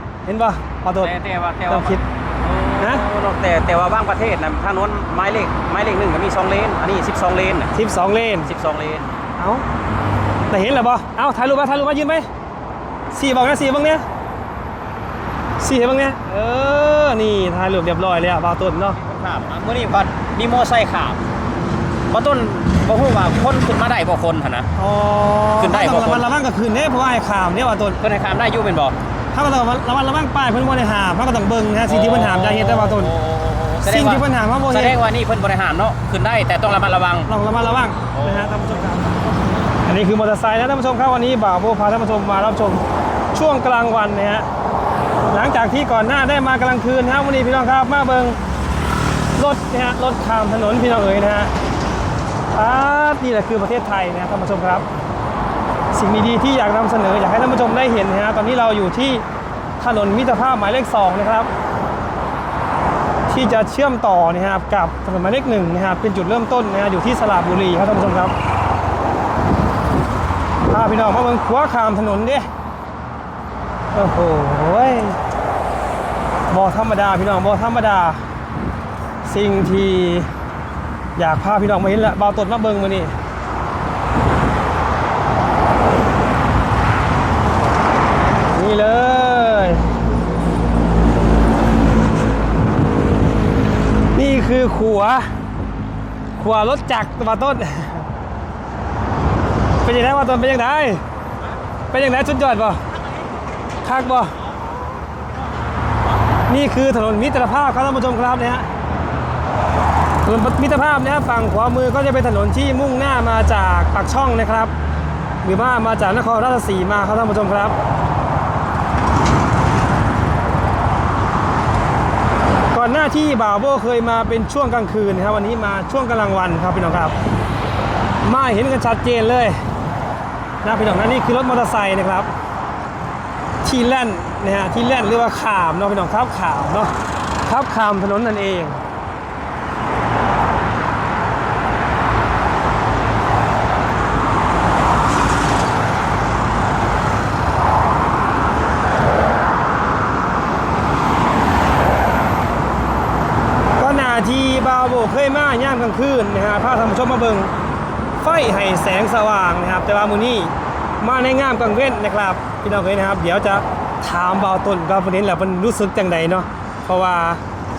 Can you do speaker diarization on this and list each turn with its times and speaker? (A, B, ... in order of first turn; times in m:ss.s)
0:00.2-0:01.1 A
0:01.0-0:07.7 B
0:01.7-0:02.0 A
0:07.7-0:08.5 A
0:08.4-0:09.1 B
0:09.4-0:09.6 A
0:10.5-0:12.3 A
0:13.1-0:14.0 A
0:15.6-0:19.0 A
0:18.9-0:21.2 B
0:22.1-0:24.7 B
0:24.8-0:28.0 A
0:25.6-0:26.3 B
0:28.0-0:29.0 B
0:29.3-0:33.1 A
0:31.9-0:37.3 B
0:33.8-0:35.0 A
0:37.3-0:39.2 A
0:38.1-0:38.6 B
0:39.8-0:44.5 A
0:45.3-0:48.4 A
0:49.4-0:51.5 A
0:52.5-0:54.8 A
0:55.9-0:59.2 A
0:59.8-1:01.5 A
1:03.3-1:08.3 A
1:10.7-1:12.5 A
1:13.9-1:15.2 A
1:16.5-1:18.2 A
1:19.2-1:20.3 A
1:21.2-1:23.1 A
1:28.5-1:29.9 A
1:34.1-1:35.3 A
1:36.4-1:38.1 A
1:39.8-1:41.0 A
1:41.9-1:42.8 A
1:43.8-1:44.4 A
1:46.5-1:48.7 A
1:50.2-1:54.7 A
1:55.4-1:57.7 A
2:02.7-2:07.1 A
2:08.2-2:09.6 A
2:10.6-2:12.3 A
2:13.6-2:16.9 A
2:17.4-2:18.8 A
2:33.8-2:37.5 A
2:38.2-2:47.4 A